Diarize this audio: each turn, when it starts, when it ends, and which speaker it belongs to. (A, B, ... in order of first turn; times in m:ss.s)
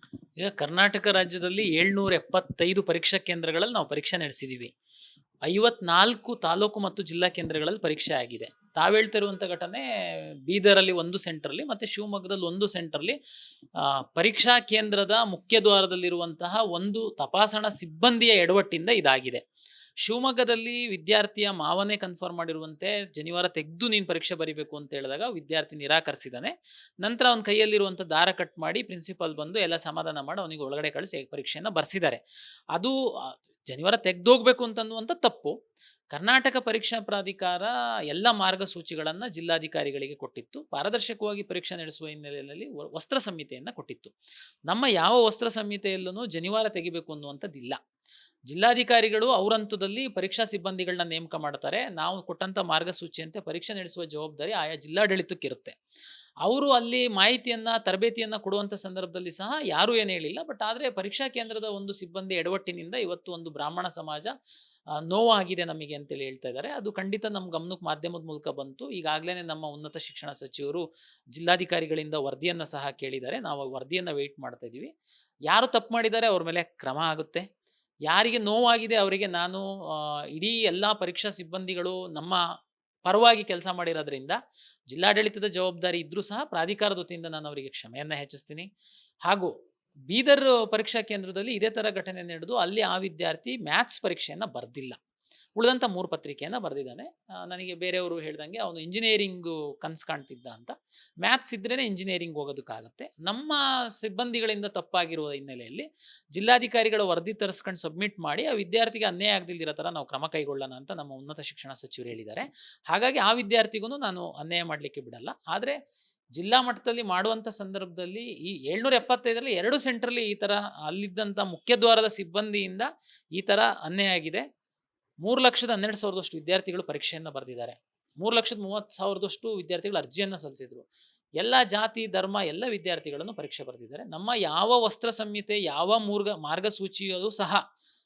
0:00.4-0:04.7 A
0:05.4-0:13.2 A
0:13.8-0:19.4 A
0:20.0-0:32.2 A
0:32.7-0:35.5 A
0:36.1-0:44.1 A
0:44.7-0:47.8 A
0:48.5-0:55.8 A
0:56.4-1:04.3 A
1:05.0-1:14.9 A
1:15.5-1:17.4 A
1:18.1-1:22.4 A
1:23.0-1:24.4 A
1:24.9-1:28.7 A
1:30.1-1:35.0 A
1:35.6-1:55.8 A
1:56.4-2:04.4 A
2:05.2-2:10.8 A
2:11.4-2:17.6 A